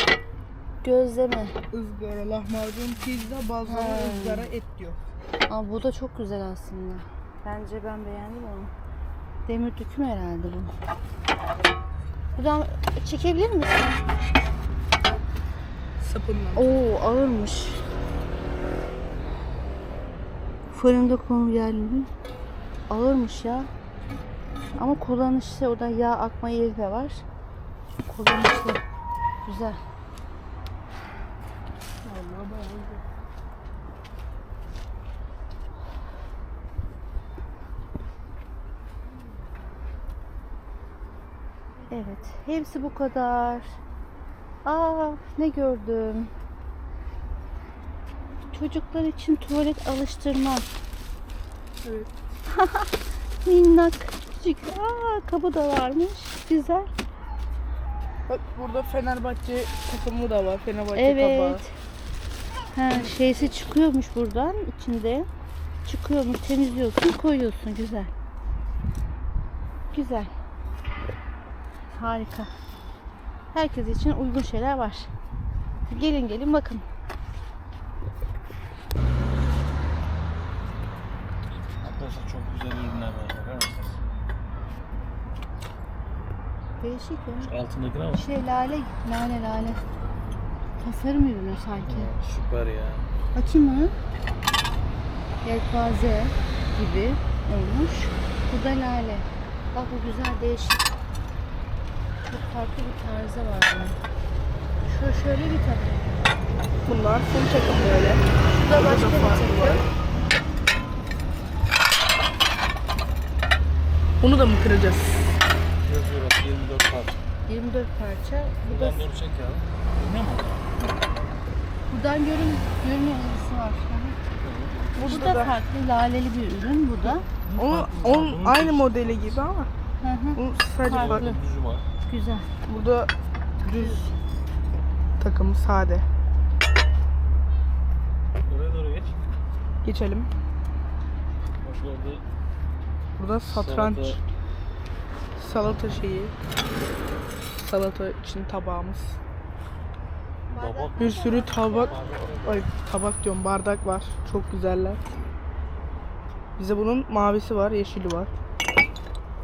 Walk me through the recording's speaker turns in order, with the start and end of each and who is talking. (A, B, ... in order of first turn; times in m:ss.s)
0:00.8-0:01.6 A
0:01.7-0:05.0 B
0:03.6-0:04.5 A
0:05.5-0:08.7 A
0:09.5-0:10.7 A
0:12.4-0:14.0 A
0:16.0-0:16.7 B
0:16.5-0:17.8 A
0:20.7-0:22.1 A
0:22.9-0:23.7 A
0:24.8-0:27.2 A
0:28.0-0:28.8 A
0:29.4-0:29.8 A
0:32.0-0:33.0 B
0:41.9-0:43.8 A
0:44.6-0:46.3 A
0:48.5-0:50.6 A
0:52.5-0:52.9 A
0:53.4-0:56.9 A
0:58.3-1:01.6 B
1:00.9-1:01.7 A
1:02.7-1:05.3 A
1:05.8-1:08.1 A
1:09.9-1:10.3 A
1:11.9-1:12.5 A
1:13.5-1:15.1 A
1:15.9-1:16.8 A
1:21.8-1:24.0 C
1:26.8-1:27.5 A
1:27.4-1:28.2 C
1:28.1-1:29.8 A
1:30.8-1:32.1 A
1:31.8-1:33.0 C
1:33.3-1:33.9 A
1:35.4-1:40.9 A
1:42.2-1:44.0 A
1:44.8-1:46.2 A
1:46.8-1:49.8 B
1:48.5-1:49.8 A
1:54.2-1:55.4 B
1:55.8-1:57.2 C
1:57.5-1:59.0 A
1:58.6-2:00.6 C
2:01.9-2:04.2 A
2:04.4-2:05.5 C
2:05.0-2:05.6 B
2:05.1-2:07.2 A
2:07.4-2:09.4 C
2:07.6-2:09.7 B
2:10.0-2:11.4 A
2:10.4-2:11.2 B
2:10.9-2:11.8 C
2:12.1-2:12.5 A
2:12.7-2:13.1 B
2:13.6-2:14.0 B
2:13.6-2:14.1 A
2:15.2-2:16.0 B
2:18.4-2:19.2 C
2:19.8-2:20.3 B
2:21.6-2:22.2 C
2:23.2-2:24.2 B
2:23.4-2:24.2 C
2:25.4-2:26.3 B
2:27.6-2:29.2 B
2:30.5-2:32.7 C
2:30.5-2:32.1 A
2:31.0-2:35.0 B
2:36.6-2:38.3 B